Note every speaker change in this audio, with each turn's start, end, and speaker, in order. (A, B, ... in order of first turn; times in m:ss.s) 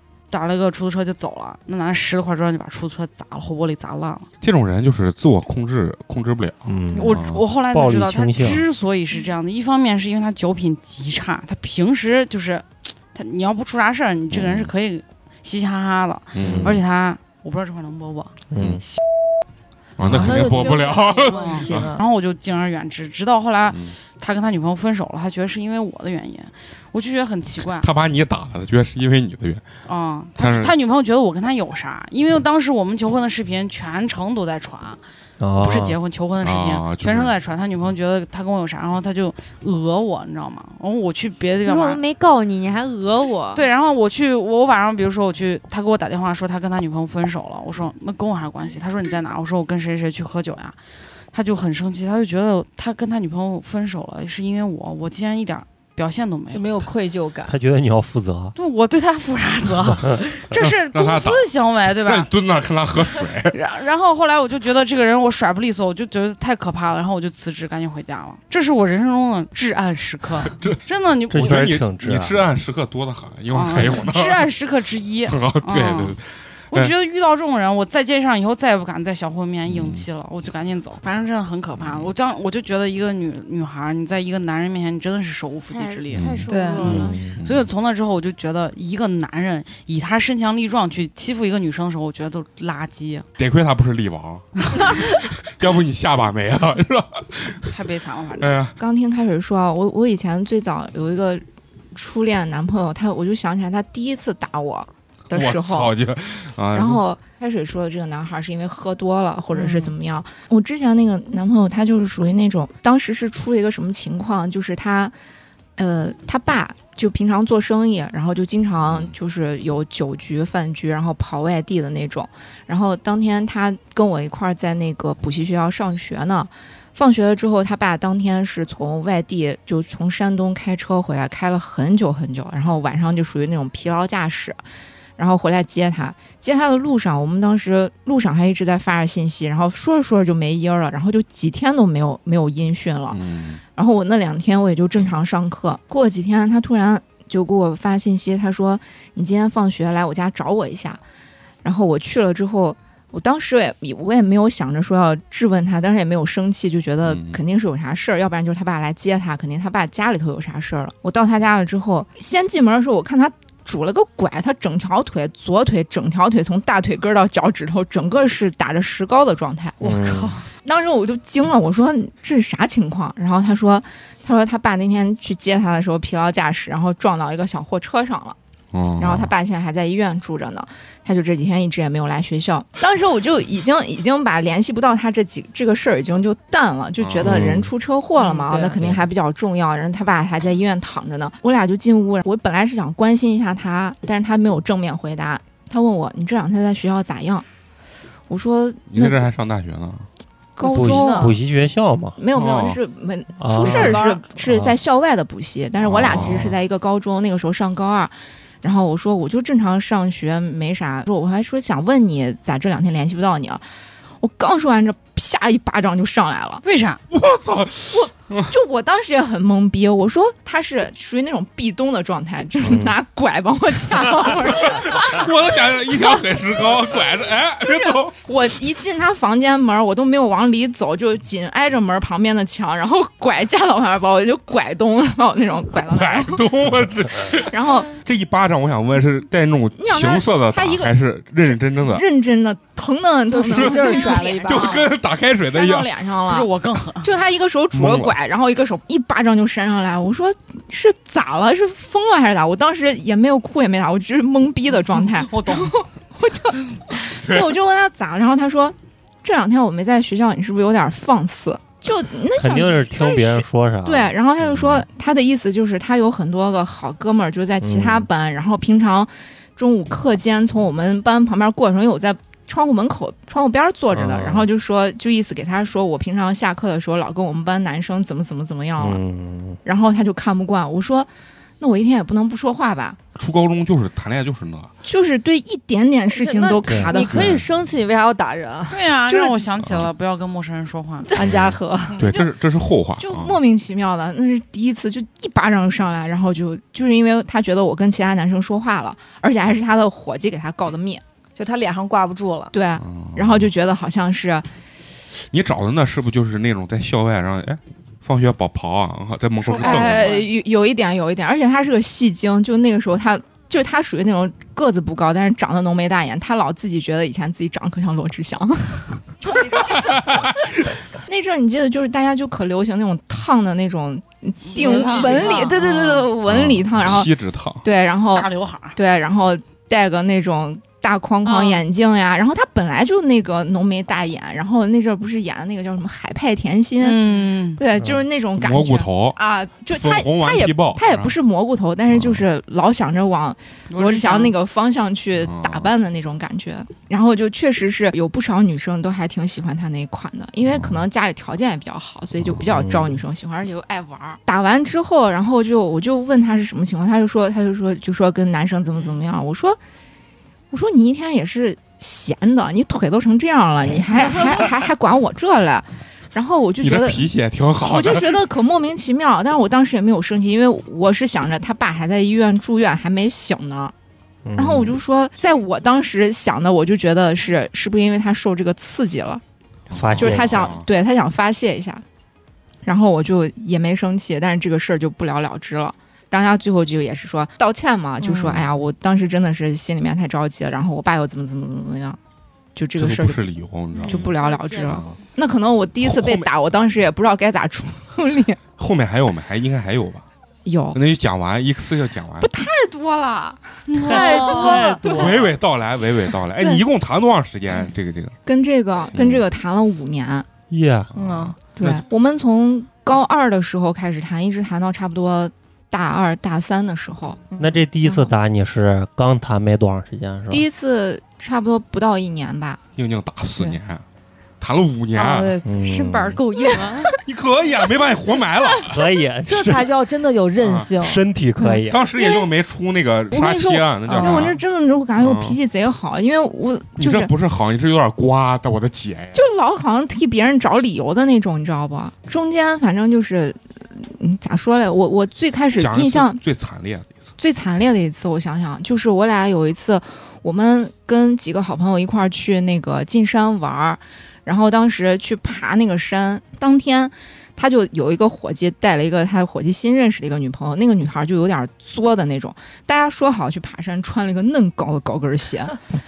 0:00.3-0:04.3 A
0:04.4-0:07.4 B
0:06.7-0:08.6 C
0:06.9-0:19.0 A
0:14.3-0:14.7 B
0:16.4-0:16.8 B
0:16.4-0:16.8 C
0:18.5-0:18.8 C
0:18.6-0:18.8 B
0:20.0-0:21.9 B
0:20.0-0:22.0 D
0:20.1-0:20.4 C
0:21.3-0:27.9 A
0:23.7-0:24.0 B
0:27.7-0:29.6 B
0:29.9-0:35.0 A
0:30.4-0:30.8 B
0:35.4-0:36.0 C
0:35.6-0:42.0 A
0:36.4-0:37.3 B
0:41.6-0:43.7 E
0:43.5-0:50.8 A
0:51.3-0:56.8 A
0:56.5-0:57.6 D
0:57.5-0:58.5 C
0:58.6-1:02.3 A
1:00.6-1:03.6 B
1:03.5-1:11.7 A
1:10.6-1:14.5 B
1:11.3-1:12.5 C
1:13.5-1:16.2 A
1:15.3-1:16.9 B
1:16.7-1:33.2 A
1:19.7-1:20.0 B
1:25.7-1:27.3 E
1:26.1-1:26.4 B
1:26.5-1:26.9 D
1:26.8-1:27.3 C
1:27.4-1:27.7 B
1:33.4-1:37.7 B
1:37.7-1:38.6 A
1:38.4-1:38.8 B
1:38.8-1:41.4 F
1:42.0-1:45.9 F
1:45.3-1:47.0 B
1:46.7-1:55.1 F
1:55.8-2:14.6 F
1:58.8-1:59.1 B
2:15.2-2:23.2 F
2:23.1-2:23.6 B
2:23.8-2:31.0 F
2:31.6-2:58.4 F
2:37.0-2:37.4 B
2:49.8-2:50.4 C
2:58.7-2:59.3 B
2:59.0-3:17.5 F
3:07.0-3:07.7 B
3:07.2-3:07.7 C
3:08.2-3:08.8 D
3:18.3-3:19.2 F
3:18.9-3:20.1 B
3:20.6-3:21.4 F
3:20.6-3:21.3 D
3:20.7-3:22.2 C
3:22.2-3:33.6 F
3:22.4-3:22.8 B
3:23.4-3:24.8 C
3:23.6-3:24.2 D
3:25.8-3:26.6 B
3:34.2-3:36.6 F
3:36.6-3:37.0 A
3:37.1-3:38.6 B
3:37.9-3:45.3 F
3:42.6-3:43.0 C
3:44.5-3:48.2 B
3:47.6-3:56.4 F
3:55.7-4:02.0 B
3:57.4-3:58.0 F
3:59.8-4:00.9 F
4:01.4-4:04.9 F
4:03.3-4:04.8 D
4:03.5-4:05.9 B
4:05.5-4:06.5 F
4:06.3-4:07.1 A
4:07.0-4:39.0 F
4:07.7-4:08.2 B
4:15.1-4:15.8 A
4:17.2-4:17.6 B
4:22.3-4:24.8 C
4:27.6-4:28.1 C
4:33.9-4:34.5 C
4:38.8-4:39.6 C
4:39.6-4:43.0 F
4:43.2-4:44.7 B
4:44.8-4:47.2 F
4:46.1-4:48.8 D
4:46.7-4:47.4 C
4:48.7-4:51.1 A
4:49.1-4:49.4 F
4:49.6-4:49.9 B
4:51.1-4:52.0 D
4:51.2-4:53.4 B
4:53.0-5:01.0 F
5:01.4-5:02.5 D
5:02.5-5:04.5 F
5:02.8-5:03.5 B
5:05.2-5:10.2 B
5:09.5-5:19.0 F
5:19.4-5:20.6 B
5:21.1-5:27.1 F
5:24.5-5:26.0 A
5:24.6-5:25.5 D
5:24.6-5:25.5 E
5:26.3-5:27.6 B
5:27.6-5:59.6 F
5:28.1-5:28.8 A
5:31.2-5:31.6 E
5:36.8-5:37.6 A
5:38.4-5:39.2 B
5:39.7-5:41.2 B
5:43.7-5:44.4 A
5:45.2-5:45.7 B
5:52.4-5:53.0 C
6:00.5-6:07.0 F
6:06.6-6:08.2 B
6:07.7-6:13.7 F
6:14.2-6:14.8 C
6:14.4-6:19.2 F
6:19.7-6:20.6 B
6:19.7-6:20.6 C
6:20.0-6:21.8 F
6:22.6-6:32.0 F
6:28.0-6:28.4 E
6:32.6-6:33.2 F
6:32.8-6:34.9 B
6:33.8-6:34.8 E
6:33.9-6:38.4 F
6:35.8-6:36.3 B
6:38.6-6:40.0 B
6:40.5-6:40.8 F
6:40.7-6:42.3 B
6:42.2-6:45.3 F
6:43.7-6:45.2 D
6:43.8-6:45.2 C
6:44.9-6:48.2 B
6:48.3-6:50.3 F
6:48.9-6:49.2 B
6:50.5-6:51.0 C
6:50.9-6:51.8 B
6:51.0-6:51.4 D
6:51.6-6:57.2 F
6:57.4-7:00.5 C
6:57.8-6:58.1 F
7:00.3-7:02.6 F
7:02.8-7:03.8 B
7:04.4-7:05.4 B
7:05.0-7:05.5 D
7:05.4-7:06.2 C
7:05.6-7:06.9 E
7:06.6-7:07.0 F
7:07.0-7:08.8 B
7:08.7-7:09.7 C
7:09.3-7:11.0 D
7:10.4-7:10.8 B
7:10.8-7:11.8 C
7:11.4-7:12.3 F
7:11.7-7:14.4 B
7:13.1-7:17.1 F
7:13.9-7:14.2 D
7:15.0-7:15.4 B
7:16.8-7:19.3 B
7:19.1-7:26.2 F
7:25.6-7:27.0 B
7:27.2-7:45.6 F